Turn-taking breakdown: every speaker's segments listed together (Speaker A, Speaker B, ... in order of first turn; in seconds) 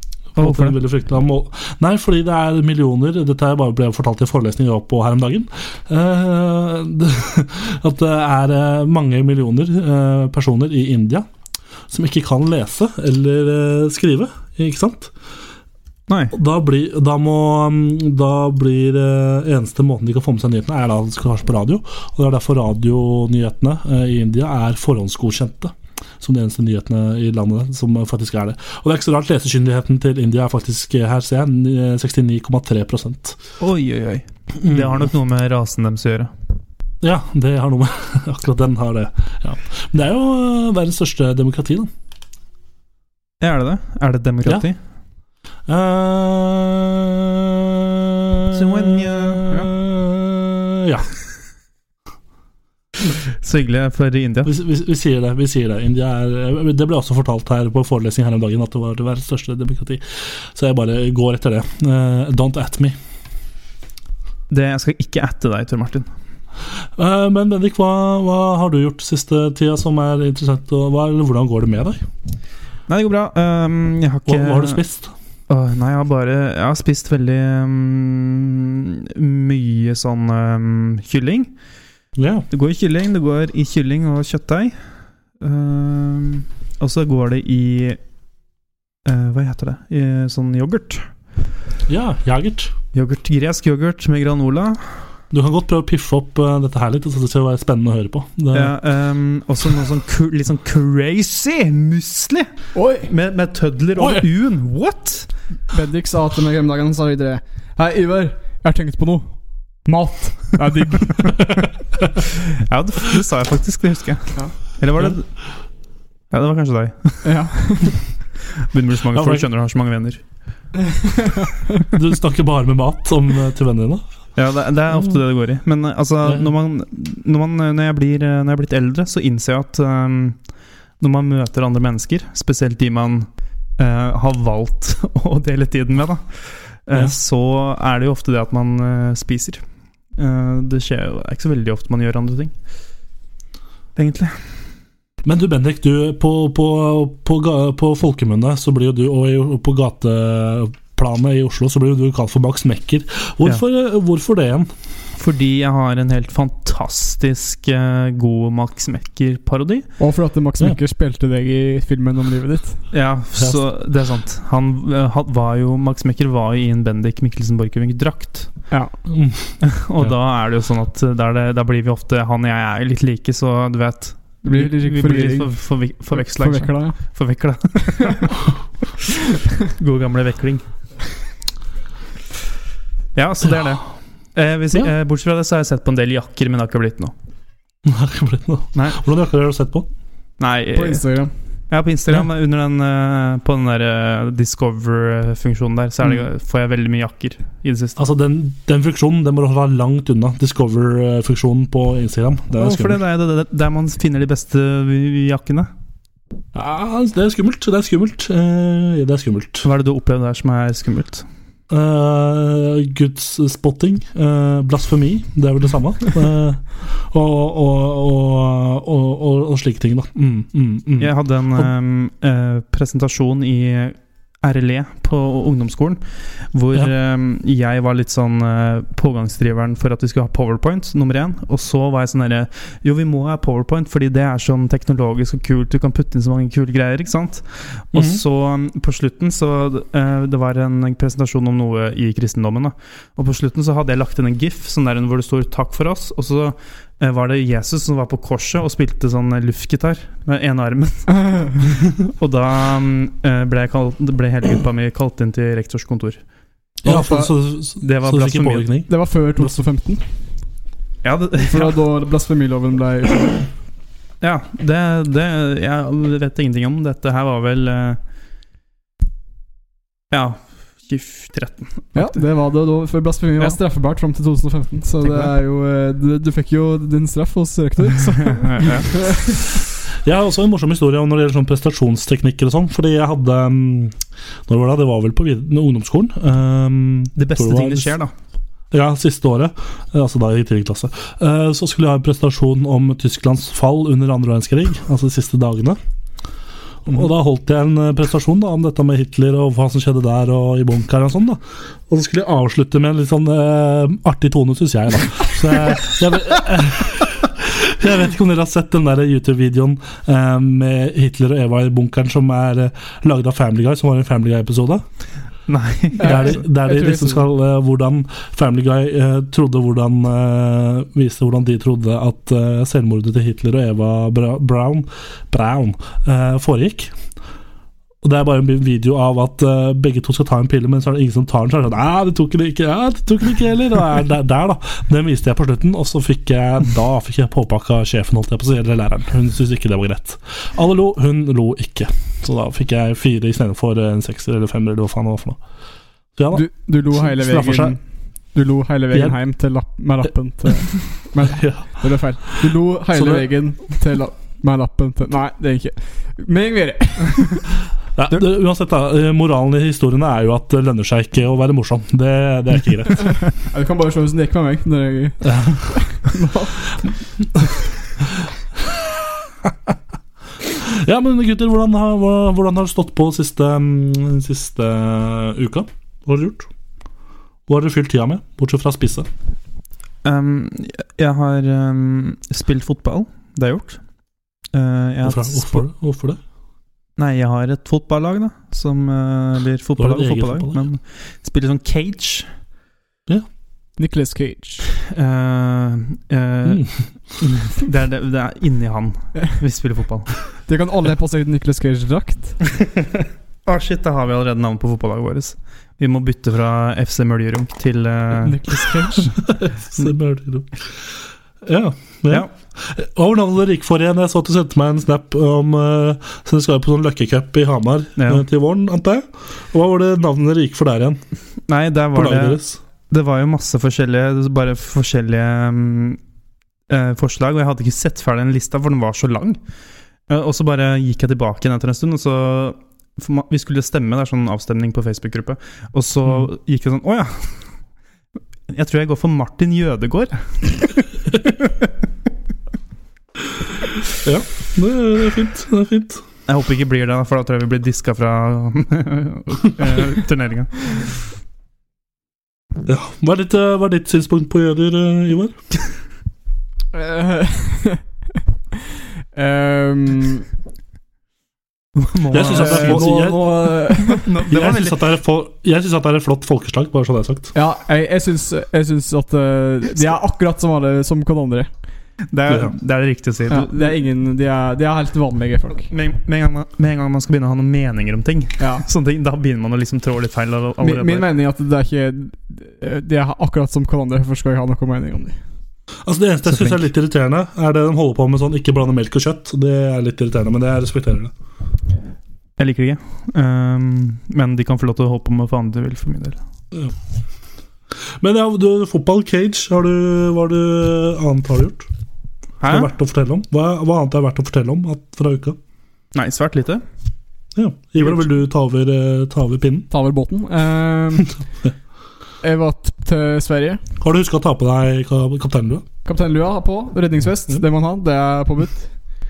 Speaker A: 0.3-11.2, 11.9-15.1, 16.3-33.4, 34.6-35.0, 37.0-41.9, 45.7-51.1, 54.5-60.0, 60.5-62.9, 67.0-72.0, 74.2-75.1, 82.2-82.5, 91.9-92.7, 95.3-98.7, 119.1-119.5, 121.9-124.0, 126.2-126.5, 145.2-154.7, 169.1-170.1, 187.8-189.9, 198.0-203.0, 206.5-209.7, 211.7-221.7, 237.9-238.2, 256.8-259.6, 280.0-283.9, 284.5-287.9, 288.7-295.8, 296.8-314.8, 316.0-326.9, 328.0-345.4, 346.2-347.8, 351.2-351.6, 352.9-353.3, 358.0-363.2, 365.2-365.7, 368.0-369.7, 370.4-376.5, 377.5-379.1, 385.0-386.2, 389.8-390.6, 409.2-410.6, 411.4-421.0, 421.9-422.6, 444.0-446.0, 452.6-455.4, 462.1-463.2, 464.3-467.3, 472.3-472.5, 485.9-491.1, 498.0-501.7, 502.4-505.4, 507.3-509.7, 513.8-515.6
Speaker B: 0.4-0.8, 16.1-16.3, 33.6-36.3, 43.4-44.8, 48.5-49.7, 53.4-54.5, 64.5-66.1, 72.9-74.8, 75.5-81.5, 82.5-84.8, 85.4-88.0, 89.0-91.1, 92.9-94.9, 98.5-105.3, 112.4-115.3, 116.3-117.3, 118.6-120.2, 124.3-130.4, 131.0-139.6, 140.2-142.5, 143.9-144.4, 155.2-159.8, 162.9-168.5, 169.6-178.4, 179.6-180.6, 183.1-187.1, 188.7-189.0, 190.4-191.0, 191.7-198.1, 202.6-205.7, 209.6-211.2, 221.0-256.2, 256.9-257.2, 257.8-258.7, 261.0-261.8, 264.2-268.0, 270.1-272.1, 275.0-275.3, 278.2-279.1, 287.1-288.1, 315.5-316.3, 380.0-383.8, 384.5-385.6, 387.0-392.3, 394.8-396.7, 397.2-400.1, 403.4-409.1, 418.0-418.2, 421.5-426.0, 426.7-429.4, 430.1-437.4, 438.5-441.7, 446.3-450.9, 461.8-462.9, 463.9-464.8, 472.1-473.7, 475.7-481.1, 486.3-486.6, 492.4-496.2, 502.4-502.7, 505.9-506.6
Speaker C: 102.7-103.1, 105.7-111.3, 117.2-118.0, 121.0-121.5, 160.0-162.8, 174.4-175.5, 176.1-177.0, 177.8-178.1, 190.7-191.3, 256.9-257.2, 258.9-260.0, 261.4-263.5, 271.9-279.4, 316.0-317.2, 346.3-347.8, 348.3-357.4, 363.3-366.8, 393.8-394.7, 400.5-402.4, 408.2-409.2, 456.7-457.8, 459.1-460.3, 462.3-464.1, 467.3-471.5, 473.3-475.7, 478.4-478.6, 480.6-485.2, 509.7-511.1, 512.2-513.6, 515.8-518.9